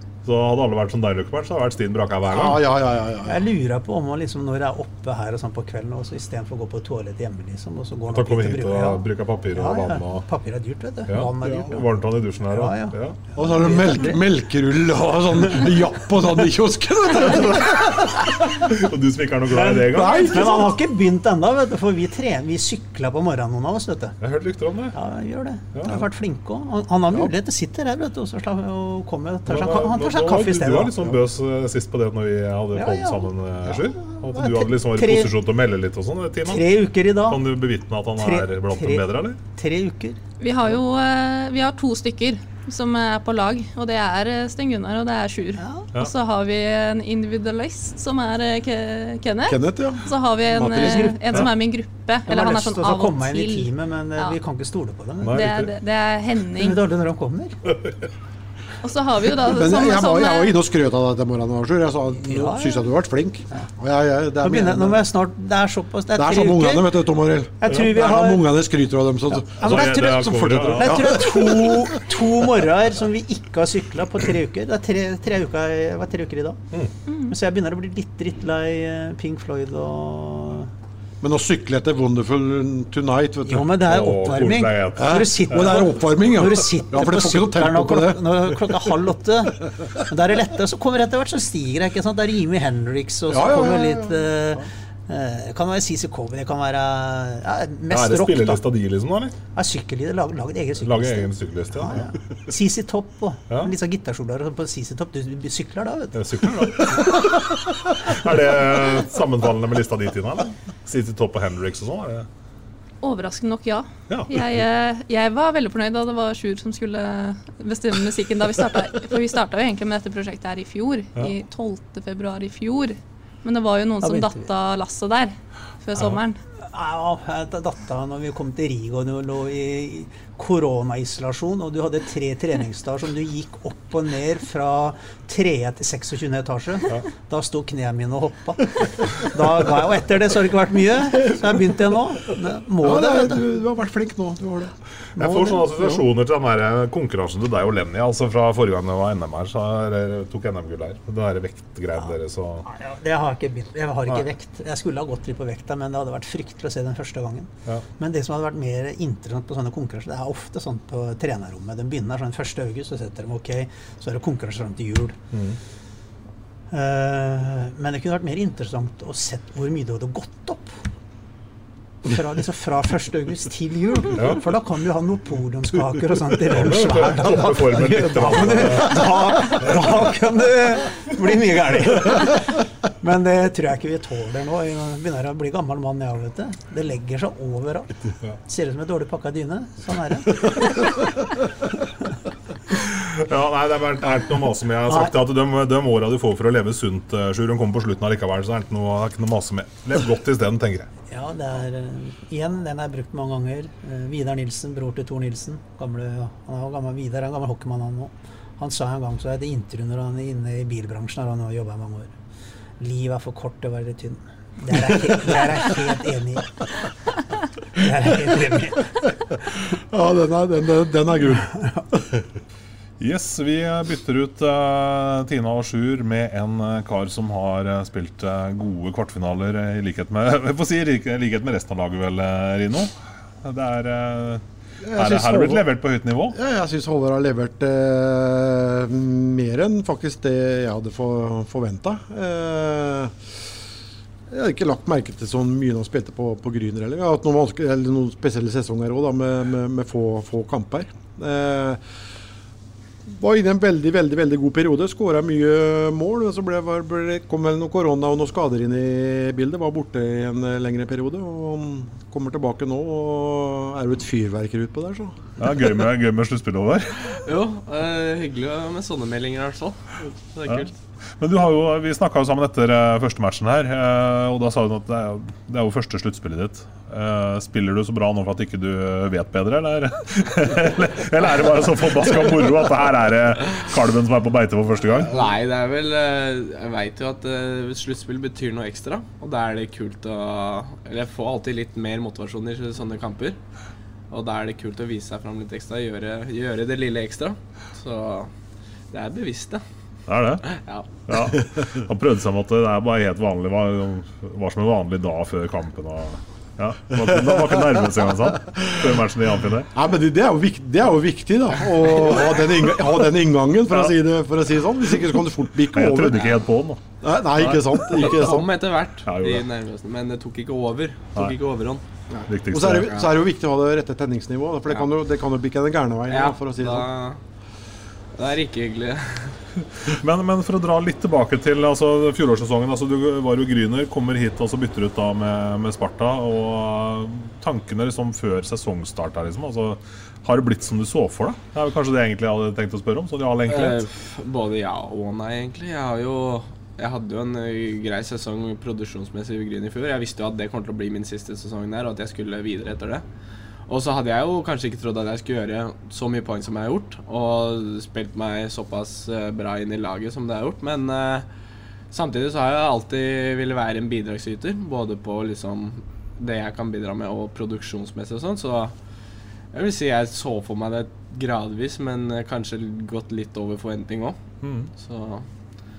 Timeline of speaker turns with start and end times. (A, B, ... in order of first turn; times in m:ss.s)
0:00.2-0:02.7 A
0:02.3-0:03.4 B
0:03.3-0:11.8 C
0:08.1-0:10.2 A
0:11.1-0:13.2 A
0:12.5-0:14.2 C
0:13.4-0:18.6 B
0:17.3-0:20.7 A
0:19.6-0:24.2 C
0:19.8-0:20.6 B
0:24.2-0:24.9 A
0:24.9-0:30.9 C
0:29.5-0:36.7 A
0:32.7-0:35.3 C
0:36.5-0:37.4 C
0:37.2-0:39.4 A
0:38.2-0:40.2 C
0:40.4-0:54.4 D
0:45.6-0:45.9 C
0:49.5-0:51.2 B
0:50.8-0:51.2 C
0:52.3-0:55.6 C
0:55.2-0:55.7 A
0:55.3-0:56.8 D
0:56.5-0:57.6 C
0:58.8-1:00.5 D
0:59.4-1:05.0 B
1:02.2-1:02.9 C
1:04.4-1:06.9 C
1:06.1-1:12.1 B
1:07.6-1:08.4 C
1:09.4-1:16.6 C
1:09.6-1:11.2 A
1:17.1-1:17.3 D
1:17.3-1:20.7 C
1:21.2-1:23.7 B
1:23.4-1:38.6 C
1:23.8-1:25.8 A
1:25.0-1:28.9 B
1:33.3-1:34.2 B
1:37.9-1:39.4 A
1:39.5-1:46.2 C
1:40.8-1:42.1 A
1:46.1-1:52.3 A
1:53.0-2:06.4 D
1:54.1-1:54.6 A
2:04.0-2:04.4 C
2:06.6-2:23.4 C
2:22.8-2:24.7 B
2:25.2-2:32.7 A
2:25.2-2:25.9 C
2:32.6-2:45.2 C
2:45.3-2:45.6 A
2:46.7-2:50.8 C
2:52.0-3:07.9 C
2:54.2-2:54.4 A
2:56.5-2:59.8 A
3:08.4-3:10.9 C
3:12.7-3:20.9 A
3:21.1-3:32.1 C
3:32.8-3:36.6 C
3:37.7-3:38.9 C
3:39.6-3:42.2 B
3:43.0-3:52.9 A
3:53.4-3:56.4 A
3:54.8-3:55.7 B
3:56.3-4:03.4 B
4:04.3-4:11.8 B
4:13.1-4:25.2 B
4:25.4-4:27.2 A
4:27.2-4:29.8 E
4:30.3-4:30.7 E
4:31.2-4:45.2 A
4:45.0-4:53.4 E
4:54.1-4:58.3 E
4:58.9-4:59.6 E
5:00.1-5:09.7 A
5:00.4-5:01.0 E
5:07.1-5:07.8 B
5:08.4-5:09.0 B
5:09.7-5:16.3 B
5:11.6-5:12.3 E
5:15.7-5:16.8 A
5:17.0-5:18.5 B
5:17.3-5:18.4 A
5:18.0-5:21.8 E
5:19.0-5:19.5 A
5:22.1-5:26.9 B
5:22.3-5:23.1 A
5:22.8-5:23.1 E
5:26.1-5:27.2 E
5:28.2-5:29.4 E
5:29.7-5:43.9 A
5:43.5-5:53.0 E
5:53.7-6:01.3 E
6:01.9-6:08.7 E
6:09.5-6:14.2 E
6:14.4-6:14.7 A
6:14.8-6:15.2 E